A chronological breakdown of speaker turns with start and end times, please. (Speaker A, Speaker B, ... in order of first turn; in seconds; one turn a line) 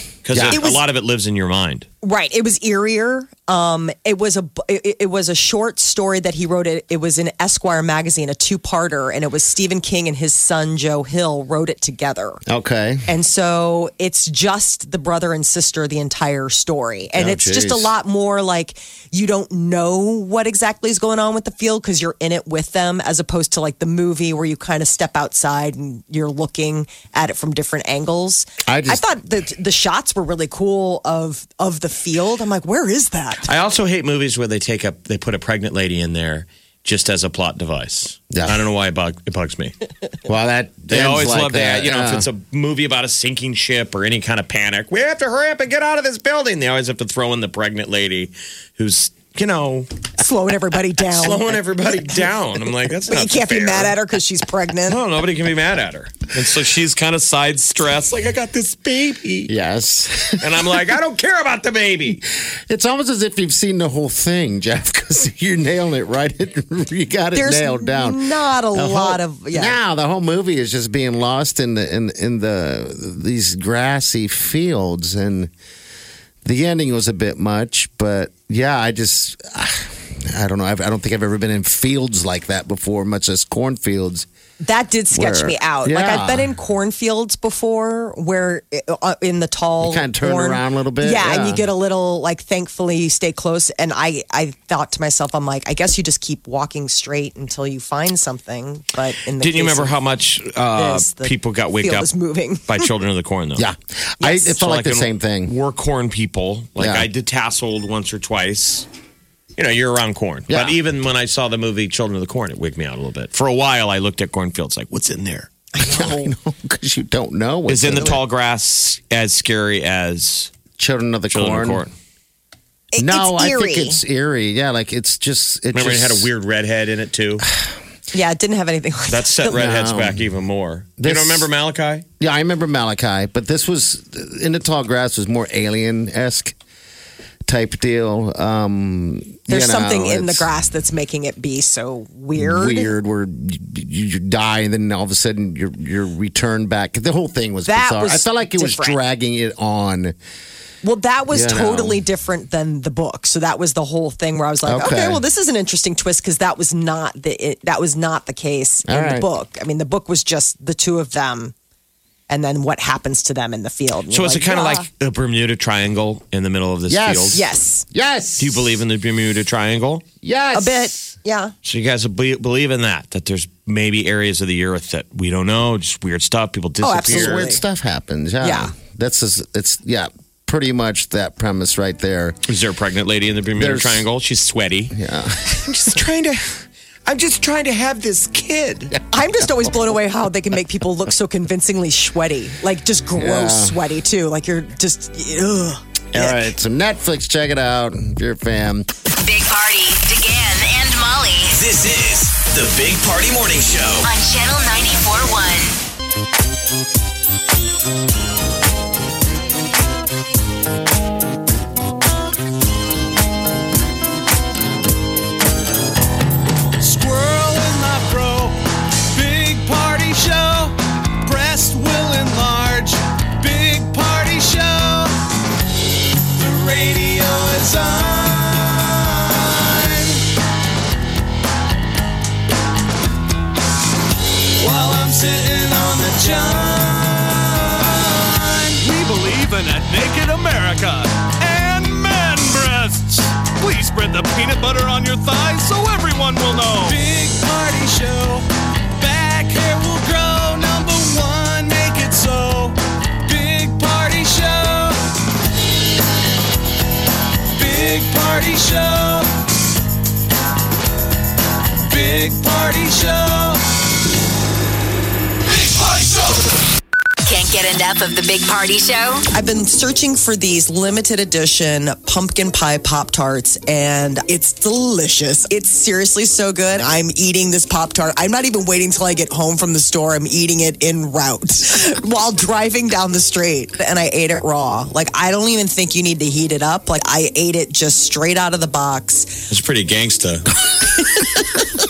Speaker A: 0.2-1.9
Speaker B: 0.3-0.6
Speaker C: 0.5-0.8
Speaker C: 2.0-12.4
Speaker B: 12.5-13.1
Speaker C: 13.1-33.5
Speaker B: 17.1-17.9
Speaker B: 28.7-29.1
Speaker A: 33.4-39.8
Speaker B: 38.3-38.6
Speaker B: 40.3-42.3
Speaker A: 40.9-50.0
Speaker C: 50.2-51.6
Speaker A: 51.0-54.0
Speaker C: 53.1-55.0
Speaker A: 54.9-59.5
Speaker B: 59.5-60.9
Speaker A: 60.4-62.2
Speaker B: 62.2-75.5
Speaker C: 67.3-69.8
Speaker B: 76.4-84.3
Speaker C: 84.6-100.0
Speaker B: 85.1-86.5
Speaker B: 89.8-91.7
Speaker A: 99.3-103.7
Speaker C: 100.7-102.9
Speaker B: 103.6-105.5
Speaker C: 104.2-104.6
Speaker A: 104.6-108.9
Speaker B: 106.8-107.1
Speaker A: 109.6-115.5
Speaker B: 110.5-110.8
Speaker C: 115.7-116.3
Speaker B: 115.8-118.2
Speaker A: 117.7-120.5
Speaker B: 120.8-121.8
Speaker A: 121.3-121.9
Speaker C: 122.9-124.0
Speaker B: 123.0-126.3
Speaker A: 125.7-127.5
Speaker C: 128.1-129.8
Speaker A: 129.1-132.1
Speaker B: 129.5-130.2
Speaker B: 131.0-131.5
Speaker B: 132.2-136.5
Speaker B: 137.5-140.5
Speaker C: 139.5-142.9
Speaker B: 142.4-150.2
Speaker C: 147.7-149.0
Speaker C: 150.8-161.5
Speaker B: 151.3-152.0
Speaker B: 154.6-155.2
Speaker B: 158.9-159.3
Speaker C: 162.3-164.9
Speaker A: 164.1-167.4
Speaker B: 166.9-168.8
Speaker C: 167.3-167.9
Speaker A: 168.4-170.0
Speaker B: 170.2-170.9
Speaker C: 170.5-171.5
Speaker A: 171.6-177.5
Speaker C: 176.8-177.6
Speaker B: 177.0-182.4
Speaker C: 178.4-178.7
Speaker A: 182.5-184.9
Speaker B: 183.6-184.1
Speaker B: 184.9-185.4
Speaker A: 185.5-186.5
Speaker A: 187.1-188.9
Speaker C: 189.1-196.5
Speaker B: 193.2-193.8
Speaker B: 196.1-198.9
Speaker D: 199.2-201.6
Speaker E: 201.5-204.1
Speaker D: 204.0-205.8
Speaker F: 216.8-218.6
Speaker F: 219.1-225.1
Speaker F: 226.4-230.2
Speaker F: 234.6-248.5
Speaker F: 249.0-252.8
Speaker F: 253.3-255.0
Speaker F: 257.6-259.3
Speaker F: 261.9-263.6
Speaker D: 267.2-269.2
Speaker C: 269.3-289.5
Speaker A: 289.5-290.5